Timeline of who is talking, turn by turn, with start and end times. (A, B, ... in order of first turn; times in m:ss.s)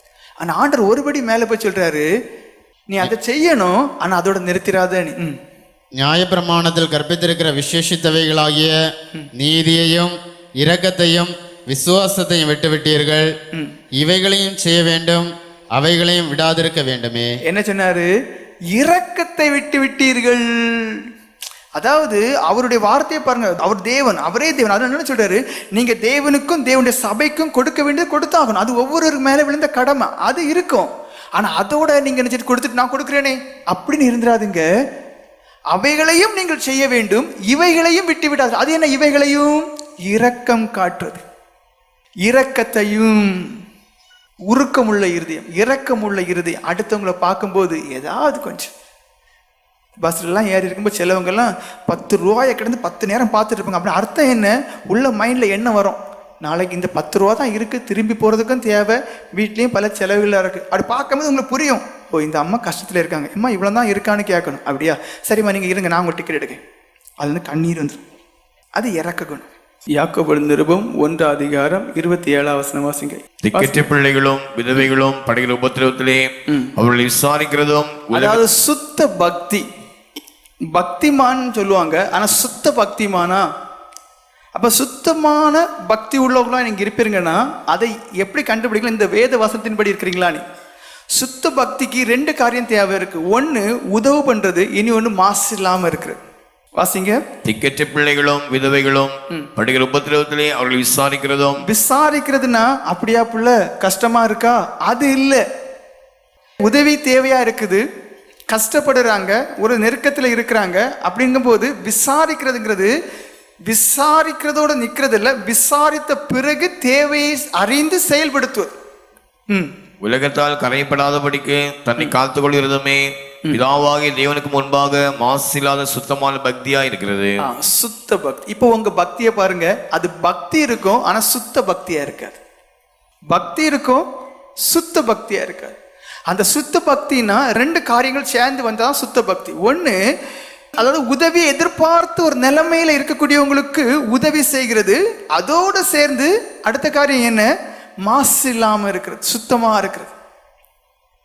0:00.4-0:02.1 A
0:02.9-0:05.4 A
0:06.0-0:08.7 B
0:09.4-0:13.3 B
0:14.0-0:17.3 B
0:17.5-0:18.1 A
0:18.7-0:21.0 A
0:21.8-0:34.6 A
0:35.7-0:41.2 A
0:42.2-0:43.4 A
0:44.5-0:48.7 A
0:50.0-1:06.6 A
1:07.2-1:08.0 A
1:08.8-1:13.9 A
1:13.4-1:18.4 C
1:18.1-1:19.6 A
1:20.7-1:23.4 A
1:24.5-1:30.4 A
1:31.2-1:36.2 A
1:36.8-1:37.2 A
1:37.4-1:41.6 C
1:41.6-1:45.4 A
1:46.6-1:47.8 A
1:48.5-1:52.9 A
1:53.7-1:58.7 A
2:00.0-2:07.4 C
2:07.4-2:12.4 A
2:13.3-2:14.0 A
2:14.7-2:15.7 A
2:16.3-2:20.0 A
2:20.8-2:27.5 A
2:28.0-2:30.1 A